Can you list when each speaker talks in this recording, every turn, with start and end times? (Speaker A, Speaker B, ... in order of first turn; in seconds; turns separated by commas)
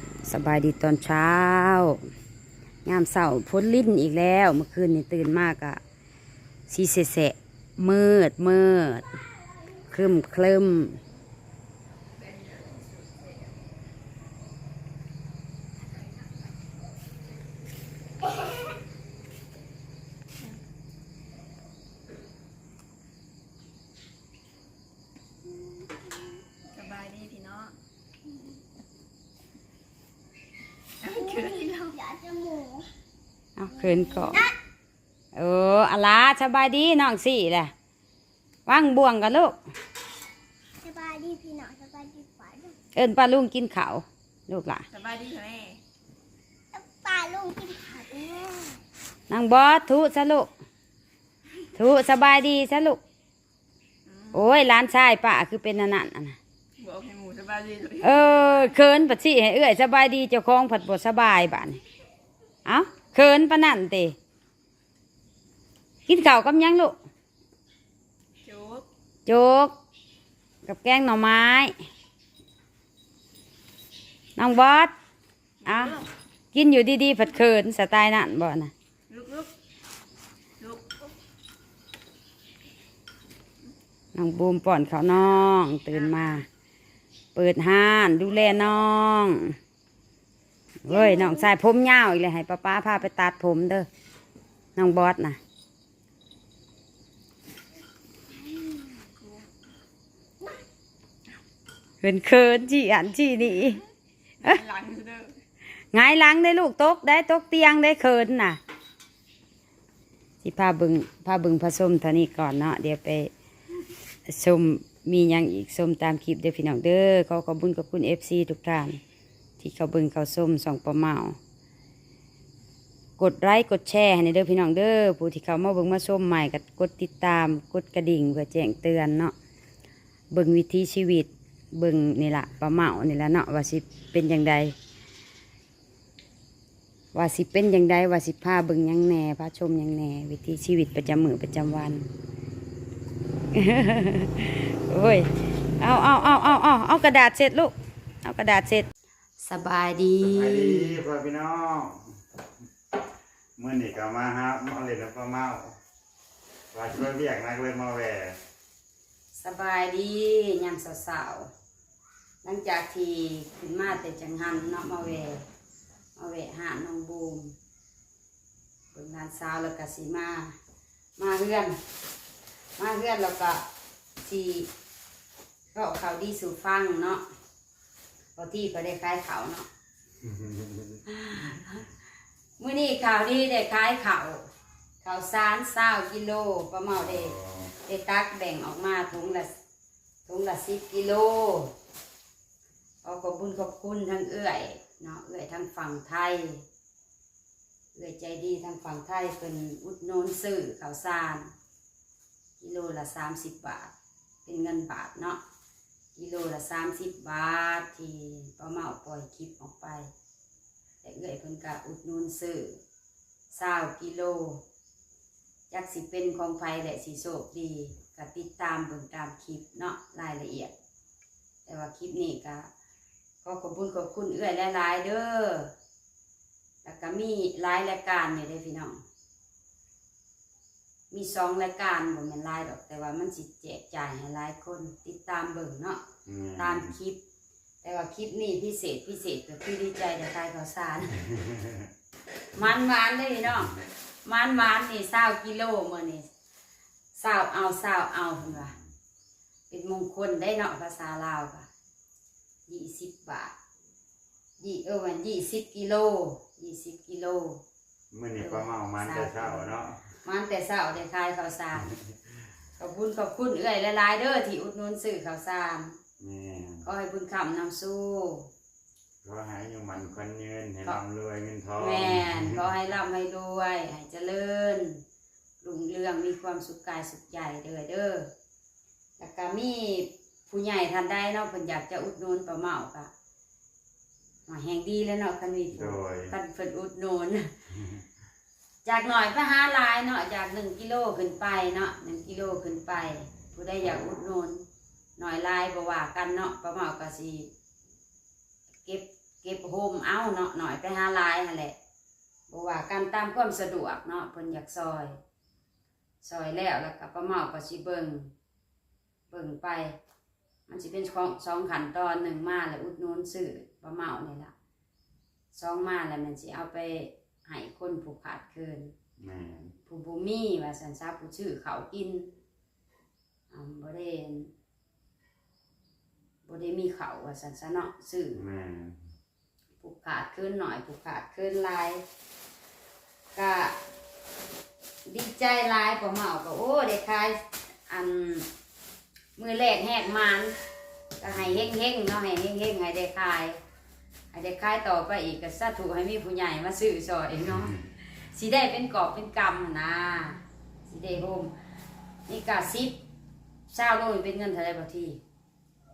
Speaker A: 0.2-2.0, Speaker A: 2.9-5.8, Speaker A: 6.7-9.1, Speaker A: 9.9-11.0, Speaker B: 26.7-27.8, Speaker B: 31.0-32.0, Speaker C: 31.1-32.9, Speaker A: 33.6-34.5, Speaker C: 33.9-34.5, Speaker A: 35.4-37.7, Speaker A: 38.7-39.6, Speaker C: 40.8-42.8, Speaker A: 42.9-44.9, Speaker B: 44.9-45.8, Speaker C: 46.7-48.8, Speaker A: 49.3-50.5, Speaker A: 51.8-53.0, Speaker B: 54.1-54.5, Speaker A: 54.3-56.4, Speaker B: 56.8-58.4, Speaker A: 58.0-61.8, Speaker A: 62.6-64.2, Speaker A: 66.1-67.0, Speaker B: 68.4-68.9, Speaker A: 69.3-69.8, Speaker A: 70.7-71.8, Speaker A: 74.4-74.9, Speaker B: 75.6-76.1, Speaker A: 75.7-76.0, Speaker A: 76.5-78.7, Speaker B: 79.1-79.5, Speaker B: 80.6-81.1, Speaker A: 84.1-86.5, Speaker A: 87.3-89.6, Speaker A: 90.8-93.9, Speaker C: 90.9-91.4, Speaker A: 94.8-95.4, Speaker C: 98.5-99.0, Speaker B: 99.2-99.5, Speaker A: 102.0-103.8, Speaker B: 104.4-105.3, Speaker A: 105.9-108.6, Speaker A: 110.4-113.3, Speaker A: 114.3-119.0, Speaker A: 119.6-121.4, Speaker A: 123.2-129.3, Speaker A: 130.3-134.8, Speaker A: 137.1-142.1, Speaker A: 143.5-148.9, Speaker A: 149.4-151.0, Speaker D: 150.2-152.2, Speaker D: 153.6-155.8, Speaker D: 156.7-158.4, Speaker A: 159.3-161.5, Speaker A: 162.4-165.4, Speaker A: 166.2-167.6, Speaker A: 168.9-170.5, Speaker A: 171.2-171.8, Speaker A: 172.8-173.6, Speaker A: 174.2-174.7, Speaker A: 175.7-177.2, Speaker A: 178.4-179.7, Speaker D: 180.2-181.0, Speaker A: 181.1-181.9, Speaker A: 182.6-184.5, Speaker A: 185.0-189.5, Speaker D: 187.0-187.7, Speaker A: 190.3-191.7, Speaker A: 193.0-196.6, Speaker A: 197.9-201.5, Speaker A: 202.6-203.9, Speaker A: 204.5-205.4, Speaker A: 206.2-210.1, Speaker A: 211.0-212.8, Speaker A: 213.5-214.6, Speaker A: 215.7-220.7, Speaker A: 221.7-222.7, Speaker A: 223.4-225.7, Speaker A: 226.8-229.0, Speaker A: 231.1-236.0, Speaker D: 236.3-236.9, Speaker A: 236.6-237.2, Speaker A: 237.8-241.2, Speaker D: 241.2-241.9, Speaker A: 242.5-246.3, Speaker A: 247.1-248.7, Speaker A: 249.7-251.7, Speaker A: 252.7-253.5, Speaker A: 254.6-257.6, Speaker D: 258.1-260.0, Speaker A: 258.4-261.9, Speaker A: 262.8-266.0, Speaker D: 266.2-266.9, Speaker A: 266.9-268.5, Speaker D: 269.2-272.7, Speaker A: 271.8-275.0, Speaker A: 275.6-278.3, Speaker A: 279.2-283.1, Speaker A: 284.5-287.5, Speaker D: 285.7-286.3, Speaker A: 288.9-294.6, Speaker A: 295.2-297.5, Speaker A: 298.8-301.8, Speaker A: 302.5-305.2, Speaker A: 306.2-308.3, Speaker A: 309.3-310.0, Speaker A: 310.7-314.5, Speaker A: 315.5-318.9, Speaker D: 319.2-319.7, Speaker A: 319.9-322.3, Speaker A: 323.5-324.5, Speaker A: 326.4-328.4, Speaker D: 328.4-329.0, Speaker A: 329.8-332.0, Speaker A: 333.4-333.8, Speaker A: 335.1-338.5, Speaker A: 339.4-340.6, Speaker A: 341.2-343.6, Speaker A: 344.3-347.8, Speaker A: 348.3-351.5, Speaker A: 352.3-353.0, Speaker A: 353.7-355.2